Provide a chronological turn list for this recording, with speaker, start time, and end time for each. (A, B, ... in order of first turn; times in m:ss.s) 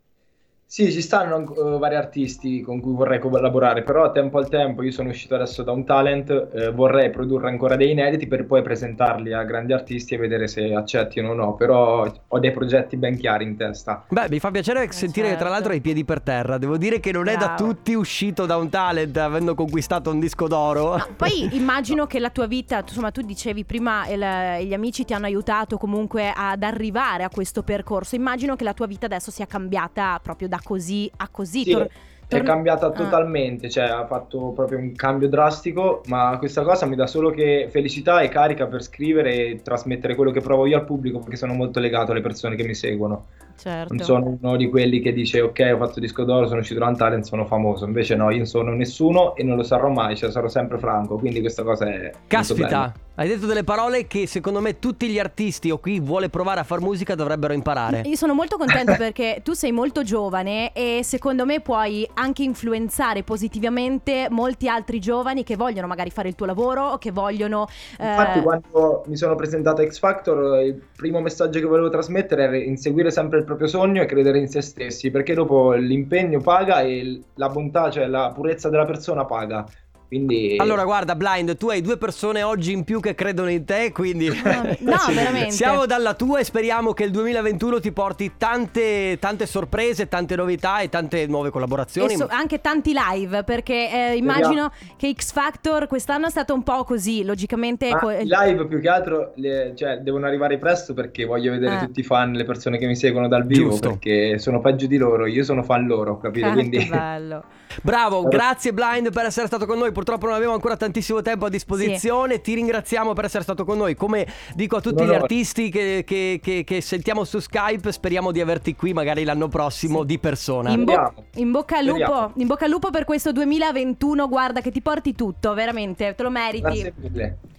0:00.7-0:14.0 A
0:14.1-0:21.5 B
0:14.9-0:15.7 C
0:17.2-0:17.7 C
0:21.0-0:33.2 C
0:31.6-0:43.3 A
0:43.6-0:44.1 C
0:43.9-0:52.9 A
0:52.3-0:58.0 B
0:57.9-1:08.5 C
1:08.0-1:20.8 A
1:20.6-1:32.3 B
1:24.4-1:25.8 C
1:24.9-1:25.2 A
1:32.0-1:38.3 C
1:34.2-1:34.6 A
1:37.9-1:47.0 A
1:43.5-1:44.0 B
1:46.4-1:47.4 C
1:47.8-2:00.8 B
1:51.8-1:52.0 C
1:54.9-1:55.3 A
2:00.7-2:06.9 C
2:00.7-2:01.3 A
2:01.8-2:02.2 A
2:06.6-2:07.4 A